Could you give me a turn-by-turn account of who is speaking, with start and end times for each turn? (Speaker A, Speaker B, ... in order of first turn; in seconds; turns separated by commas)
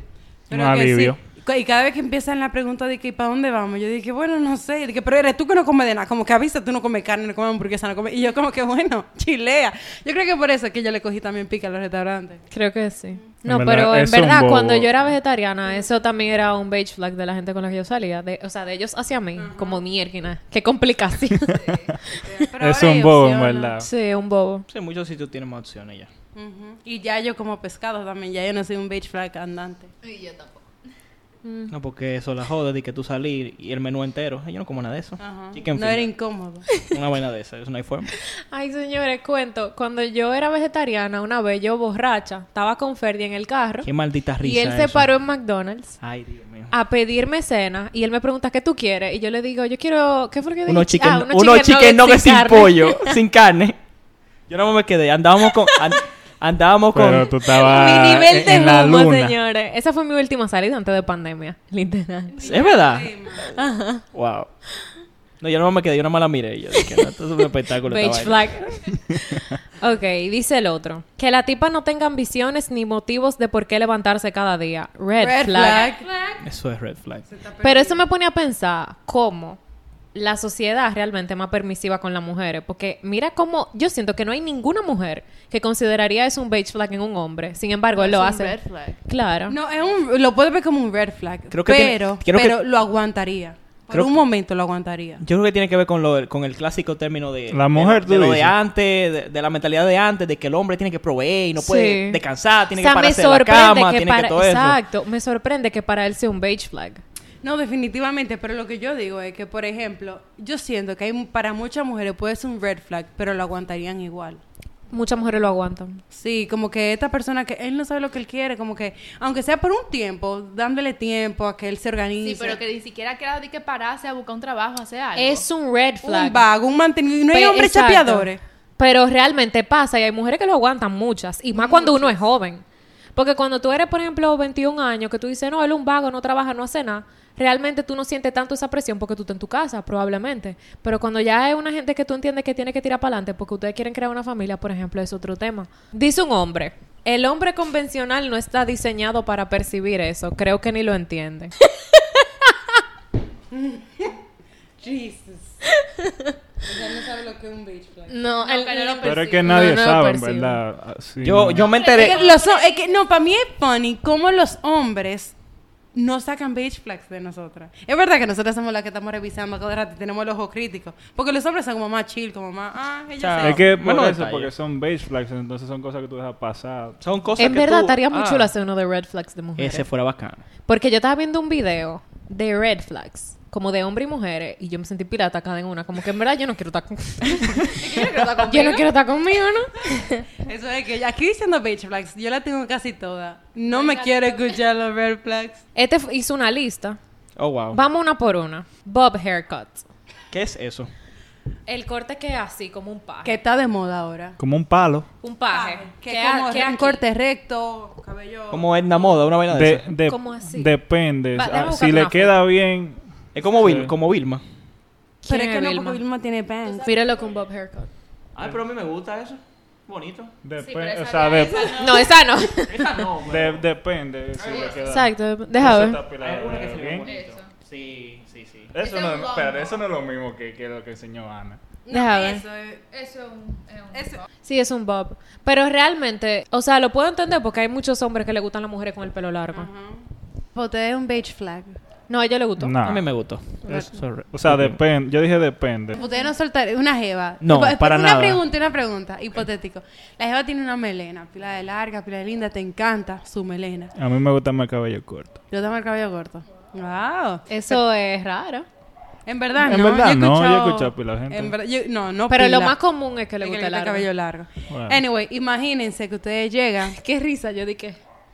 Speaker A: 0.5-12.4, Speaker B: 0.5-1.2, Speaker C: 12.5-22.4, Speaker B: 13.4-14.9, Speaker A: 19.4-19.8, Speaker D: 21.5-21.9, Speaker A: 22.2-23.8, Speaker B: 22.6-23.9, Speaker C: 23.8-24.6, Speaker E: 24.7-26.1, Speaker A: 26.3-29.9, Speaker D: 30.0-30.7, Speaker C: 31.4-31.7, Speaker E: 31.7-36.1, Speaker A: 35.2-36.7, Speaker E: 36.7-38.1, Speaker C: 38.5-43.9, Speaker E: 43.8-45.1, Speaker C: 44.4-46.0, Speaker E: 46.0-46.7, Speaker C: 46.7-53.2, Speaker E: 50.6-53.8, Speaker E: 54.5-57.3, Speaker B: 56.9-59.4, Speaker C: 57.6-62.6, Speaker D: 62.4-62.8, Speaker E: 62.4-64.5, Speaker A: 62.7-63.5, Speaker C: 63.5-64.0, Speaker E: 65.4-68.8, Speaker C: 67.8-75.9, Speaker A: 75.2-76.1, Speaker D: 75.7-76.4, Speaker E: 76.4-77.2, Speaker A: 77.2-78.0, Speaker C: 77.6-79.6, Speaker C: 80.1-89.6, Speaker D: 88.0-89.0, Speaker A: 89.5-95.2, Speaker E: 91.5-92.6, Speaker E: 93.9-94.2, Speaker E: 95.2-104.8, Speaker B: 97.5-98.5, Speaker C: 101.6-102.2, Speaker C: 102.8-107.0, Speaker A: 107.4-114.4, Speaker C: 114.9-116.0, Speaker A: 116.1-122.6, Speaker D: 122.2-125.5, Speaker C: 125.2-126.5, Speaker A: 126.0-128.4, Speaker C: 127.3-132.6, Speaker A: 131.5-132.2, Speaker C: 133.1-151.5, Speaker A: 153.5-154.2, Speaker A: 154.8-155.6, Speaker A: 156.6-158.2, Speaker C: 158.1-160.6, Speaker D: 158.4-159.7, Speaker B: 159.0-161.7, Speaker E: 161.2-162.2, Speaker D: 161.6-163.0, Speaker A: 161.8-165.3, Speaker A: 165.9-173.6, Speaker E: 173.2-174.5, Speaker B: 173.4-177.0, Speaker E: 177.0-178.5, Speaker C: 177.4-179.9, Speaker E: 179.6-180.4, Speaker C: 180.7-187.7, Speaker D: 187.7-188.9, Speaker C: 188.4-190.2, Speaker A: 190.4-195.6, Speaker D: 193.7-194.5, Speaker C: 195.7-197.0, Speaker E: 197.3-197.8, Speaker C: 197.7-199.8, Speaker E: 200.3-200.9, Speaker C: 201.7-203.4, Speaker A: 203.2-204.4, Speaker B: 204.4-205.1, Speaker C: 205.2-207.0, Speaker A: 205.5-208.7, Speaker E: 208.5-209.9, Speaker B: 209.5-213.9, Speaker C: 210.1-210.8, Speaker C: 211.3-212.5, Speaker E: 213.3-214.4, Speaker C: 215.2-216.0, Speaker A: 215.2-216.9, Speaker C: 216.8-217.9, Speaker E: 218.3-220.3, Speaker B: 220.4-221.9, Speaker D: 220.6-222.3, Speaker C: 221.7-222.9, Speaker E: 222.7-223.6, Speaker B: 223.2-227.1, Speaker E: 224.4-224.7, Speaker D: 224.5-224.8, Speaker C: 224.8-226.0, Speaker E: 226.2-228.7, Speaker D: 227.0-227.5, Speaker B: 228.7-231.6, Speaker D: 228.8-229.8, Speaker A: 231.8-232.8, Speaker C: 231.9-232.4, Speaker D: 232.9-234.2, Speaker A: 233.9-234.2, Speaker C: 234.4-239.7, Speaker A: 239.5-240.0, Speaker A: 240.5-241.8, Speaker C: 242.1-242.8, Speaker B: 242.6-243.1, Speaker E: 242.8-244.8, Speaker B: 243.6-246.0, Speaker A: 245.9-253.9, Speaker E: 247.4-248.4, Speaker B: 253.9-255.4, Speaker A: 255.5-257.8, Speaker C: 257.5-258.6, Speaker A: 259.2-262.8, Speaker B: 259.6-261.5, Speaker C: 262.3-264.1, Speaker A: 263.4-267.0, Speaker B: 264.7-265.0, Speaker C: 266.9-268.0